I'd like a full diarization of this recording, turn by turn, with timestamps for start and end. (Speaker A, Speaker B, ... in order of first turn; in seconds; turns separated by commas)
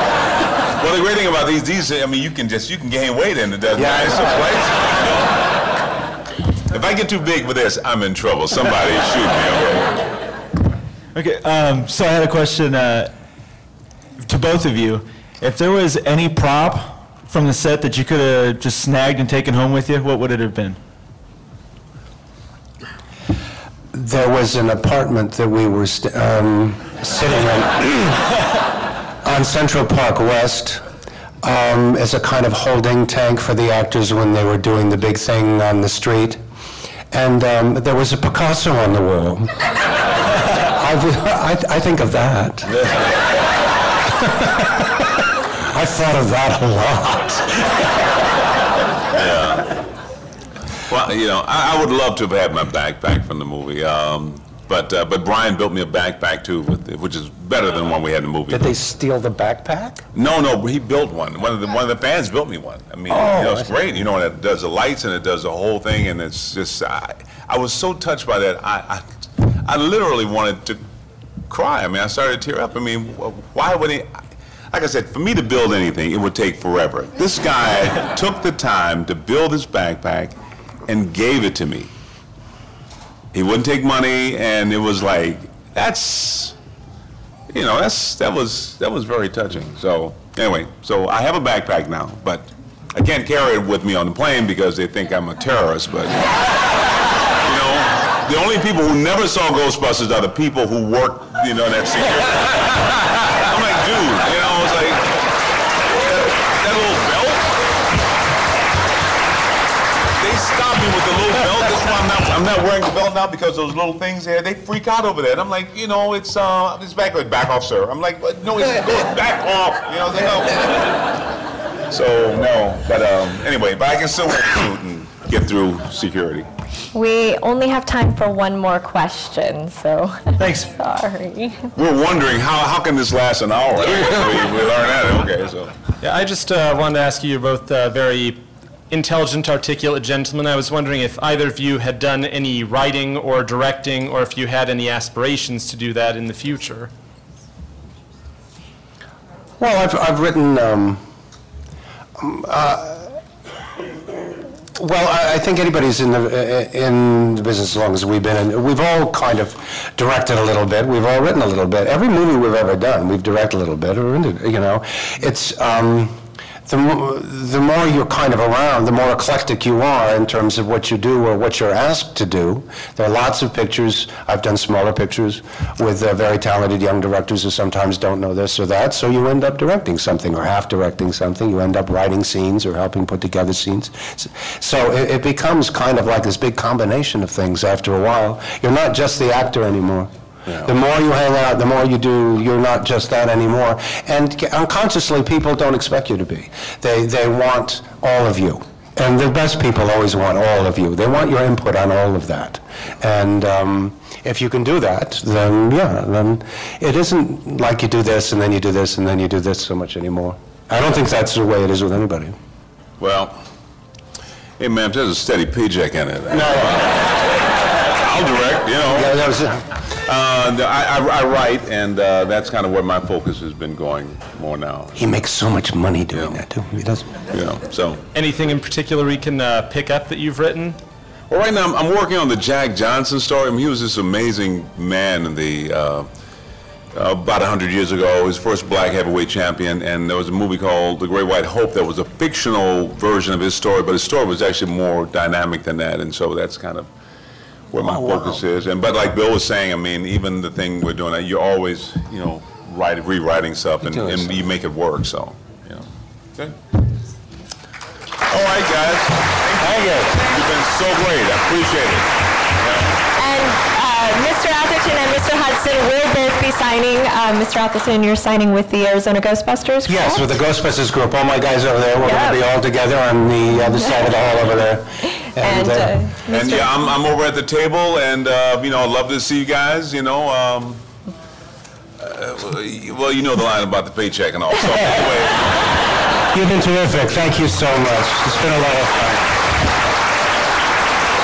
Speaker A: 0.8-5.2, Speaker B: 3.7-4.5, Speaker A: 6.7-10.0, Speaker C: 11.2-13.1, Speaker C: 14.2-20.8, Speaker B: 23.9-28.2, Speaker B: 29.2-30.8, Speaker B: 31.4-36.4, Speaker B: 37.1-39.5, Speaker B: 40.6-42.7, Speaker A: 42.7-43.1, Speaker B: 44.4-44.9, Speaker B: 45.7-47.9, Speaker A: 49.1-49.7, Speaker A: 50.9-58.8, Speaker B: 58.5-60.0, Speaker A: 60.1-70.8, Speaker B: 63.1-64.0, Speaker A: 71.5-74.1, Speaker A: 74.7-80.4, Speaker A: 80.9-81.9, Speaker A: 83.3-86.5, Speaker A: 87.5-96.3, Speaker A: 97.5-105.1, Speaker A: 106.0-107.5, Speaker A: 110.2-120.9, Speaker A: 121.9-126.5, Speaker D: 126.9-131.7, Speaker A: 131.8-135.7, Speaker E: 136.0-146.9, Speaker B: 149.6-151.0, Speaker B: 152.2-153.2, Speaker B: 154.8-190.1, Speaker B: 190.6-212.3, Speaker A: 213.0-213.4, Speaker A: 214.6-217.2, Speaker B: 216.3-216.8, Speaker A: 217.9-219.2, Speaker B: 218.9-219.7, Speaker A: 220.1-224.9, Speaker B: 224.9-227.1, Speaker A: 227.3-228.0, Speaker E: 228.1-230.8, Speaker A: 231.3-236.1, Speaker A: 236.9-246.9, Speaker A: 247.7-256.6, Speaker B: 247.8-248.4, Speaker B: 253.8-254.4, Speaker A: 258.3-262.1, Speaker B: 259.6-260.2, Speaker A: 262.6-262.9, Speaker D: 263.2-270.4, Speaker B: 269.9-276.0, Speaker D: 272.0-272.4, Speaker D: 275.4-276.7, Speaker A: 276.3-280.8, Speaker A: 282.0-285.6, Speaker B: 286.3-289.3